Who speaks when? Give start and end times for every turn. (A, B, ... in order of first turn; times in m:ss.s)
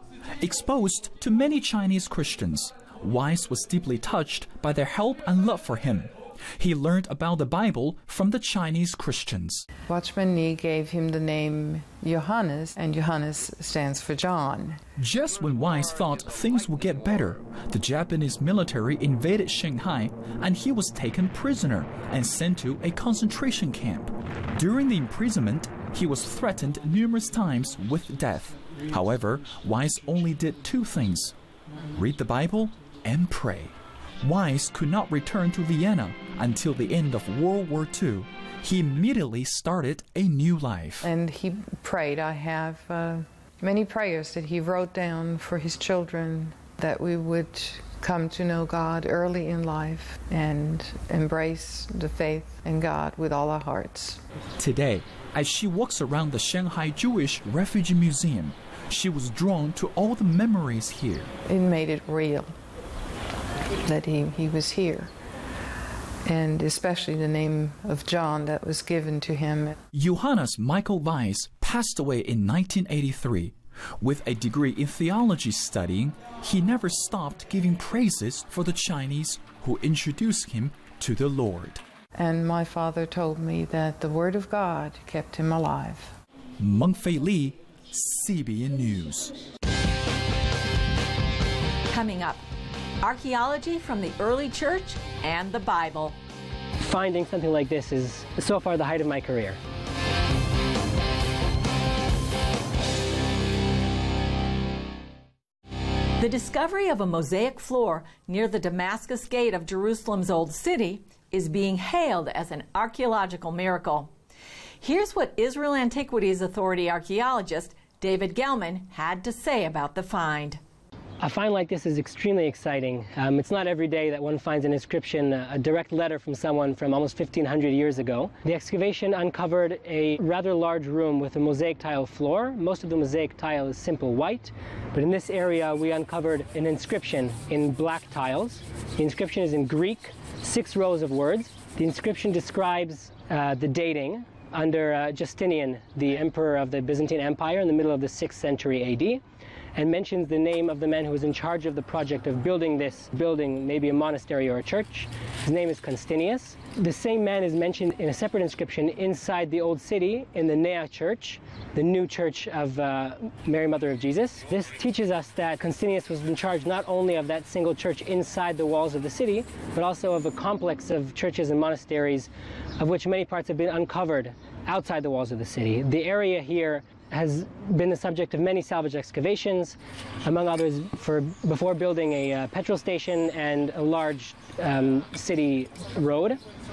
0:00.4-0:09.7 A
0:09.9-0:14.8 B
0:15.0-0:31.3 A
0:31.9-0:41.1 A
0:41.0-0:54.2 B
0:54.6-1:01.3 A
1:01.5-1:02.6 B
1:03.8-1:05.1 B
1:06.3-1:09.8 B
1:09.9-1:21.8 A
1:22.2-1:26.1 B
1:26.6-1:29.4 A
1:31.9-1:32.4 C
1:33.0-1:36.2 C
1:36.8-1:39.6 D
1:46.2-1:54.1 C
1:54.8-2:00.6 C
2:01.2-2:29.2 D
2:29.8-3:06.4 D